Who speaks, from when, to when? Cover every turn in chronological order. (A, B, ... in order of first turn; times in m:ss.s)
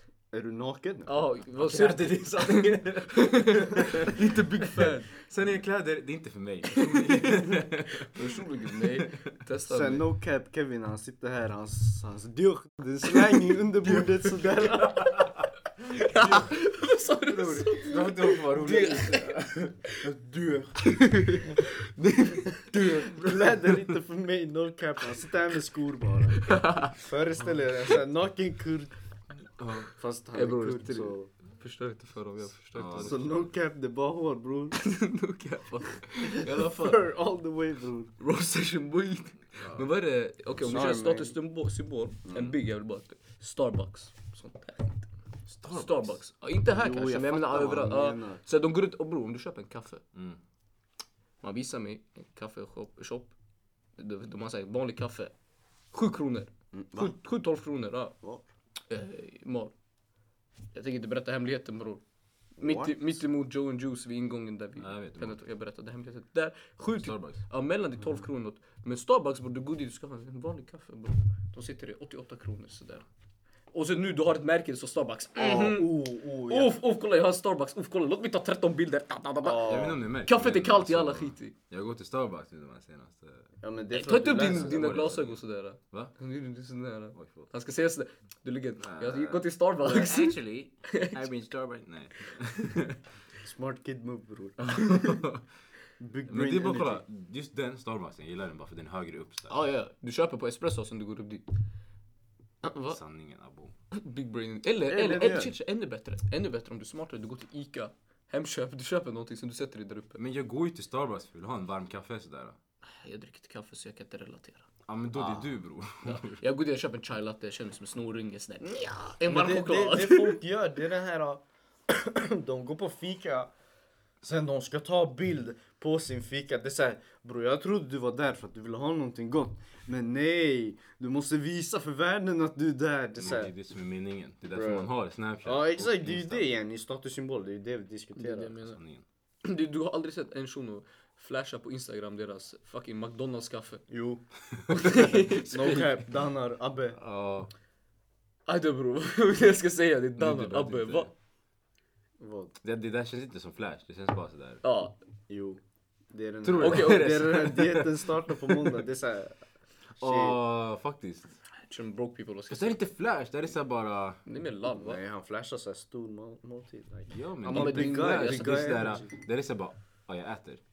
0:00.3-0:01.2 A
0:01.1-0:05.2 B
0:01.6-0:04.2 C
0:04.8-0:09.3 C
0:06.9-0:10.0 B
0:09.7-0:15.1 A
0:13.9-0:21.2 C
0:15.9-0:20.0 B
0:20.8-0:23.2 B
0:22.7-0:23.7 C
0:23.0-0:28.9 A
0:26.4-0:27.0 B
0:29.6-0:29.9 C
0:29.8-0:31.3 A
0:30.3-0:33.4 B
0:32.7-0:33.5 C
0:33.0-0:34.8 A
0:34.8-0:37.0 B
0:36.2-0:38.1 A
0:38.2-0:45.1 B
0:39.6-0:39.9 C
0:40.6-0:41.4 A
0:45.5-0:46.2 C
0:45.7-0:50.0 B
0:46.7-0:48.4 A
0:50.1-0:50.4 C
0:51.4-0:53.3 B
0:54.0-0:55.3 B
0:55.9-0:58.2 B
0:56.7-0:57.2 A
0:58.9-0:59.7 B
1:00.7-1:02.0 B
1:02.6-1:03.2 A
1:02.6-1:13.0 B
1:04.8-1:05.4 C
1:06.9-1:07.4 C
1:13.7-1:21.5 B
1:15.4-1:16.8 A
1:19.4-1:20.0 A
1:19.6-1:23.5 C
1:23.6-1:25.1 A
1:23.9-1:31.2 B
1:24.4-1:26.1 C
1:27.1-1:27.5 C
1:28.8-1:33.0 C
1:33.4-1:34.8 A
1:34.6-1:35.4 C
1:36.0-1:37.0 A
1:36.3-1:39.5 C
1:39.5-1:41.4 B
1:42.6-1:43.0 B
1:42.9-1:43.7 C
1:43.9-1:50.2 B
1:44.9-1:45.5 A
1:50.2-1:52.6 C
1:52.8-1:55.4 B
1:54.9-1:56.4 C
1:56.0-2:00.4 B
1:59.2-2:03.5 A
2:04.2-2:13.5 A
2:13.2-2:16.5 C
2:14.5-2:14.9 A
2:15.4-2:18.6 A
2:18.2-2:18.8 B
2:18.6-2:19.0 C
2:19.4-2:23.8 B
2:23.9-2:24.2 A
2:24.5-2:25.9 C
2:24.7-2:25.8 B
2:24.8-2:27.0 A
2:26.9-2:27.5 C
2:28.5-2:31.1 B
2:30.2-2:31.1 C
2:32.2-2:32.5 A
2:32.6-2:34.6 C
2:34.6-2:35.0 B
2:35.3-2:39.4 A
2:36.4-2:37.8 C
2:36.6-2:37.7 B
2:40.0-2:41.4 C
2:40.0-2:40.4 A
2:41.6-2:42.8 B
2:42.5-2:44.2 C
2:44.2-2:45.0 B
2:44.7-2:49.1 A
2:47.1-2:50.6 C
2:47.5-2:49.0 B